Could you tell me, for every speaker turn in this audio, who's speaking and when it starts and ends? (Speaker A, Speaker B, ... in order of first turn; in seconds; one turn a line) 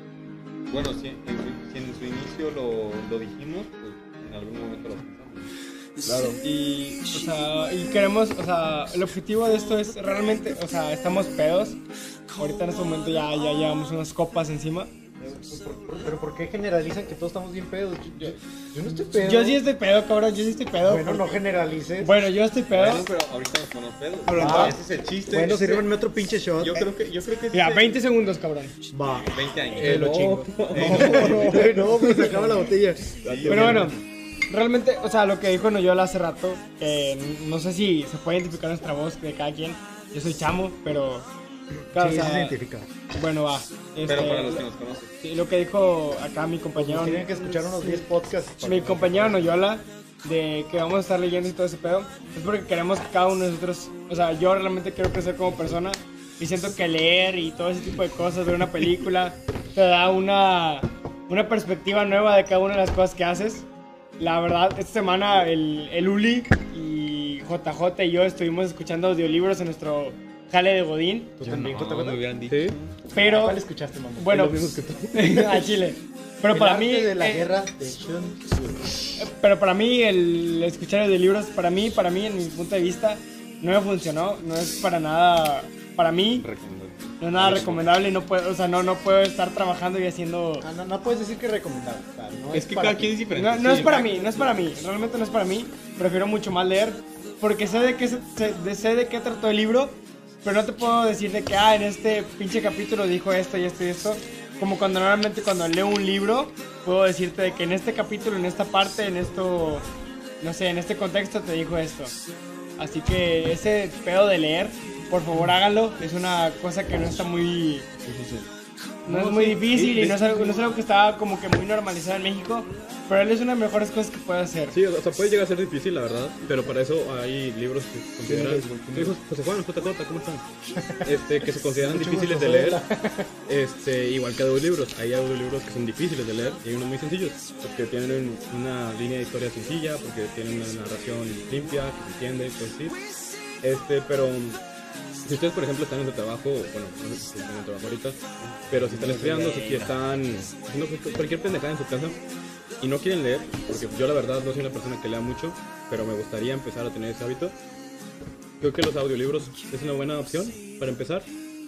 Speaker A: 0.7-5.5
Speaker B: 6.0-6.4
Speaker C: 6.4-11.8
Speaker C: 12.4-14.9
Speaker D: 15.2-19.6
Speaker C: 19.2-21.4
Speaker D: 20.8-22.1
Speaker C: 22.0-23.1
Speaker A: 22.7-26.0
Speaker B: 24.3-24.8
Speaker D: 24.3-26.9
Speaker A: 26.6-28.0
Speaker C: 27.5-28.8
Speaker D: 28.9-33.9
Speaker A: 29.2-31.7
Speaker E: 29.8-31.6
Speaker C: 29.8-30.5
Speaker B: 30.8-32.1
Speaker B: 33.2-33.9
Speaker A: 33.2-33.9
Speaker C: 33.5-41.3
Speaker C: 41.9-42.6
Speaker D: 41.9-42.9
Speaker C: 43.1-44.7
Speaker A: 44.0-45.1
Speaker C: 45.2-48.0
Speaker D: 46.8-49.5
Speaker C: 48.6-63.7
Speaker C: 64.2-71.4
Speaker D: 71.4-72.2
Speaker A: 71.4-73.0
Speaker E: 72.5-72.8
Speaker C: 73.1-73.6
Speaker D: 73.2-74.5
Speaker C: 74.2-77.5
Speaker E: 74.3-75.5
Speaker D: 76.5-79.0
Speaker C: 79.2-86.5
Speaker A: 86.3-87.8
Speaker C: 87.2-90.7
Speaker D: 90.6-93.2
Speaker A: 92.5-94.5
Speaker C: 93.3-109.8
Speaker C: 110.4-112.1
Speaker C: 112.8-117.9
Speaker B: 118.1-118.5
Speaker C: 119.0-124.8
Speaker E: 119.1-120.7
Speaker E: 124.7-130.4
Speaker B: 128.3-129.1
Speaker D: 130.8-133.3
Speaker E: 131.0-132.8
Speaker E: 133.5-143.0
Speaker E: 143.6-144.6
Speaker E: 145.2-152.2
Speaker A: 148.4-150.2
Speaker E: 152.8-157.6
Speaker E: 158.6-161.3